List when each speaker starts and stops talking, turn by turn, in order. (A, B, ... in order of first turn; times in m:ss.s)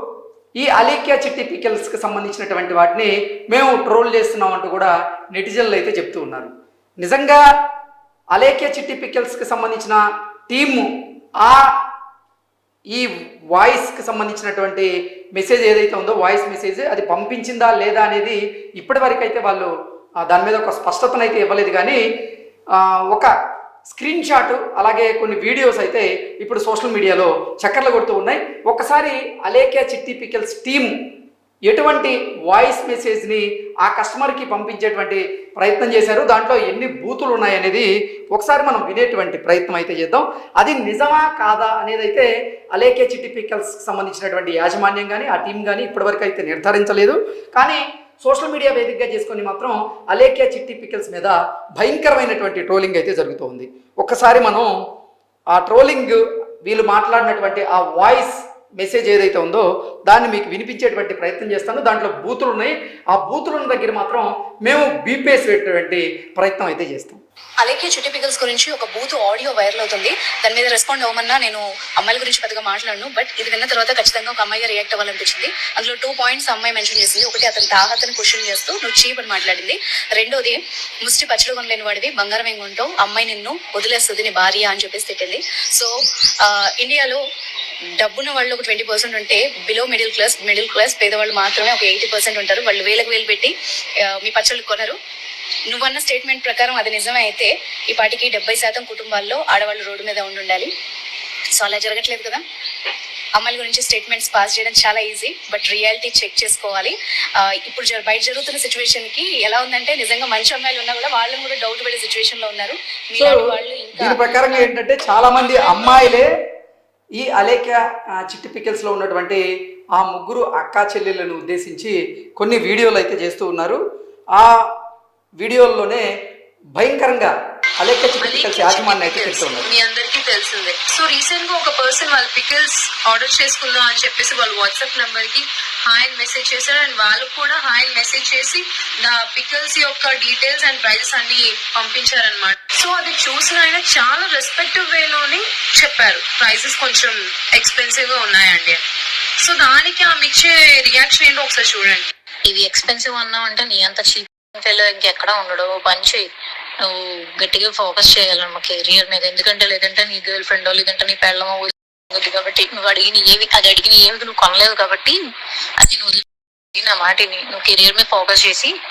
0:00.6-0:06.5 A
0:07.0-0:07.4 A
0:08.3-0:10.9 A
0:12.9-0:19.7 A
0:20.3-0:22.0 A
0:22.7-0:23.3 A
0:23.9-0:30.9 A
0:31.7-0:54.7 A
0:55.5-1:07.2 A
1:07.6-1:27.2 B
1:28.0-1:35.0 B
1:35.7-1:40.7 B
1:41.5-1:42.4 B
1:43.4-1:54.7 B
1:53.2-1:53.4 A
1:54.0-1:56.3 A
1:55.5-1:55.9 B
1:57.2-1:59.4 A
2:00.0-2:03.8 A
2:04.3-2:04.7 A
2:05.4-2:06.0 A
2:06.8-2:09.7 A
2:08.2-2:28.8 C
2:29.4-2:32.1 C
2:32.5-2:36.3 D
2:36.9-2:45.2 D
2:45.8-2:46.2 D
2:46.8-2:48.7 D